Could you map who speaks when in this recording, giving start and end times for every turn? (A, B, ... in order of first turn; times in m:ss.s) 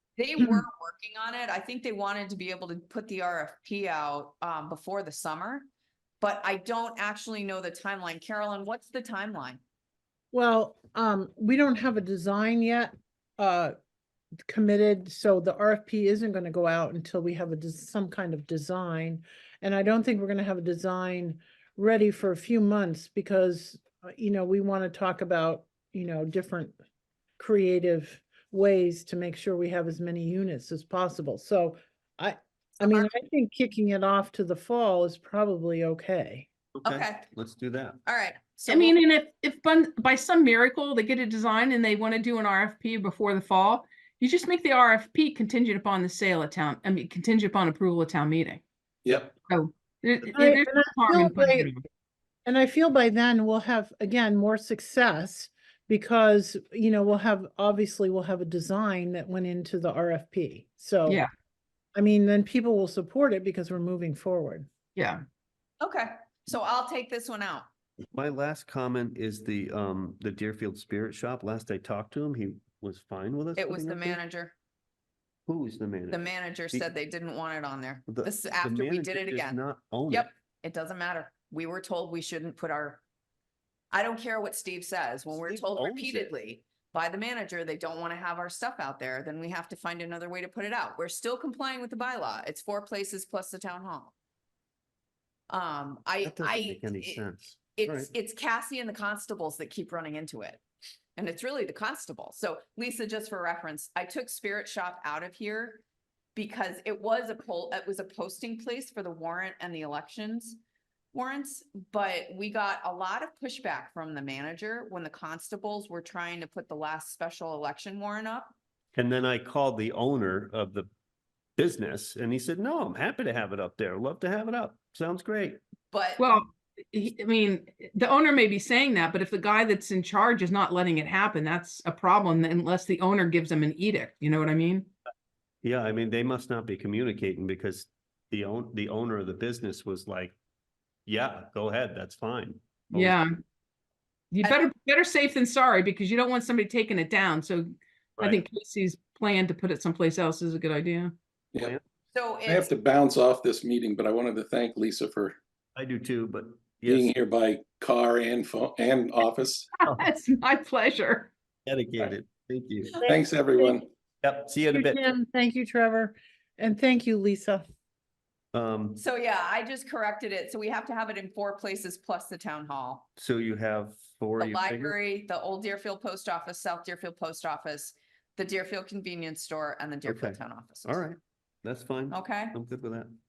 0:00.2-0:05.7 A
0:06.2-0:09.6 A
0:10.3-0:13.7 B
0:14.5-0:26.8 B
0:27.4-0:36.4 B
0:36.8-0:38.0 C
0:36.8-0:37.2 A
0:38.0-0:39.0 A
0:38.7-0:48.6 D
0:49.0-0:49.3 E
0:49.5-0:51.8 D
0:50.3-0:51.7 B
0:52.4-1:01.2 B
1:01.9-1:04.7 B
1:05.0-1:05.2 D
1:05.8-1:07.7 A
1:08.1-1:14.2 C
1:13.6-1:14.5 A
1:15.5-1:16.8 C
1:16.1-1:23.0 A
1:18.1-1:20.3 C
1:23.9-1:34.1 A
1:25.3-1:26.3 C
1:35.5-1:37.2 A
1:36.2-1:38.1 C
1:37.8-1:40.6 A
1:41.2-1:45.8 A
1:46.3-1:50.6 A
1:51.1-1:58.5 A
1:59.0-2:00.9 C
2:01.6-2:05.6 C
2:05.9-2:06.3 A
2:06.2-2:14.9 D
2:15.6-2:20.4 C
2:21.0-2:23.2 C
2:22.9-2:23.3 D
2:24.3-2:31.1 D
2:24.4-2:24.7 A
2:28.2-2:28.4 C
2:32.1-2:32.7 A
2:32.4-2:35.4 E
2:35.8-2:37.1 C
2:36.9-2:39.7 E
2:39.8-2:41.3 D
2:41.6-2:43.0 C
2:43.0-2:43.7 B
2:43.0-2:43.9 E
2:44.2-2:45.0 C
2:44.7-2:47.6 B
2:48.5-2:49.0 C
2:49.0-2:53.1 A
2:53.2-2:55.0 C
2:54.4-3:01.0 A
3:00.0-3:03.1 C
3:02.1-3:02.5 A